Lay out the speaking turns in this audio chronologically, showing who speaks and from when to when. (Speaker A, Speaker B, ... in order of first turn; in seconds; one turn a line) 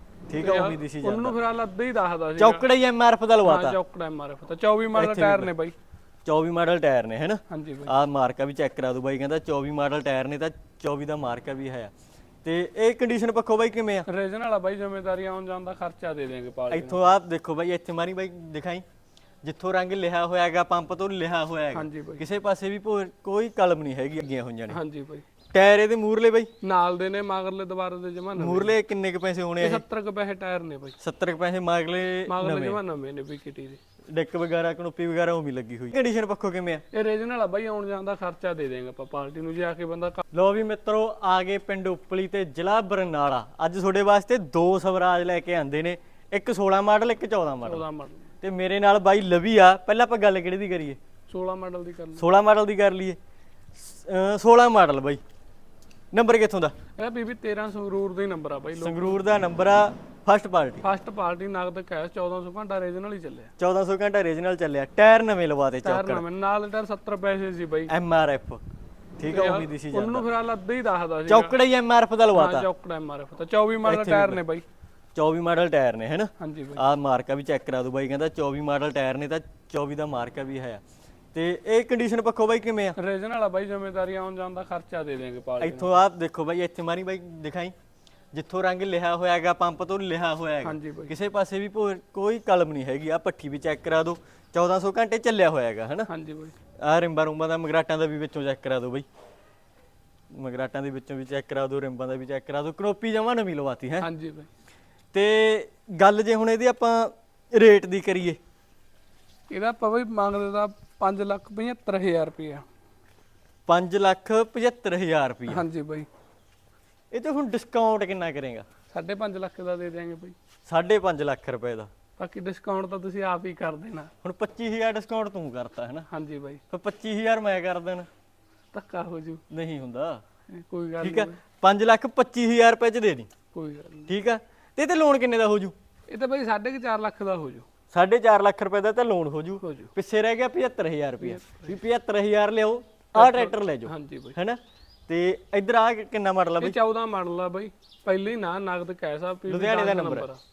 Speaker A: 0.3-1.4
Speaker B: 0.4-2.7
Speaker A: 2.4-3.8
Speaker B: 3.4-5.7
Speaker A: 4.9-5.5
Speaker A: 6.3-11.9
Speaker B: 7.5-7.9
Speaker A: 12.4-14.1
Speaker B: 14.1-17.1
Speaker A: 16.7-18.8
Speaker A: 19.4-24.8
Speaker B: 21.7-22.2
Speaker B: 24.7-25.2
Speaker A: 25.5-26.5
Speaker B: 26.6-28.7
Speaker A: 28.4-29.8
Speaker B: 29.6-31.0
Speaker A: 31.0-32.8
Speaker B: 32.3-33.8
Speaker A: 34.1-36.8
Speaker B: 36.9-40.2
Speaker A: 40.3-47.9
Speaker B: 47.6-48.3
Speaker A: 48.4-51.0
Speaker B: 51.3-52.3
Speaker A: 52.2-53.2
Speaker A: 53.8-55.2
Speaker A: 56.1-56.7
Speaker B: 57.0-59.2
Speaker A: 58.8-60.8
Speaker B: 60.8-63.5
Speaker A: 63.6-66.2
Speaker B: 65.8-67.9
Speaker A: 67.9-68.6
Speaker A: 69.2-70.3
Speaker B: 69.3-71.6
Speaker A: 71.3-72.7
Speaker B: 72.3-74.6
Speaker A: 73.8-74.4
Speaker A: 75.2-80.8
Speaker B: 76.4-76.8
Speaker A: 81.3-83.0
Speaker B: 83.0-86.0
Speaker A: 85.6-87.7
Speaker A: 88.3-96.1
Speaker B: 90.6-91.2
Speaker B: 96.1-96.6
Speaker A: 96.8-99.1
Speaker A: 100.3-104.1
Speaker B: 104.0-104.5
Speaker A: 105.1-108.4
Speaker B: 109.5-112.7
Speaker A: 113.7-115.7
Speaker B: 115.5-116.1
Speaker A: 117.1-118.7
Speaker B: 118.9-120.3
Speaker A: 120.7-121.9
Speaker B: 122.2-124.1
Speaker A: 124.2-126.1
Speaker B: 126.1-126.6
Speaker A: 126.7-128.1
Speaker B: 128.7-129.4
Speaker A: 129.5-130.2
Speaker B: 130.5-131.4
Speaker A: 131.0-133.3
Speaker B: 133.5-134.1
Speaker A: 134.1-135.8
Speaker B: 136.1-137.7
Speaker A: 137.9-146.8
Speaker B: 139.6-139.9
Speaker B: 141.2-141.8
Speaker B: 143.2-144.4
Speaker B: 146.6-150.4
Speaker A: 149.5-150.3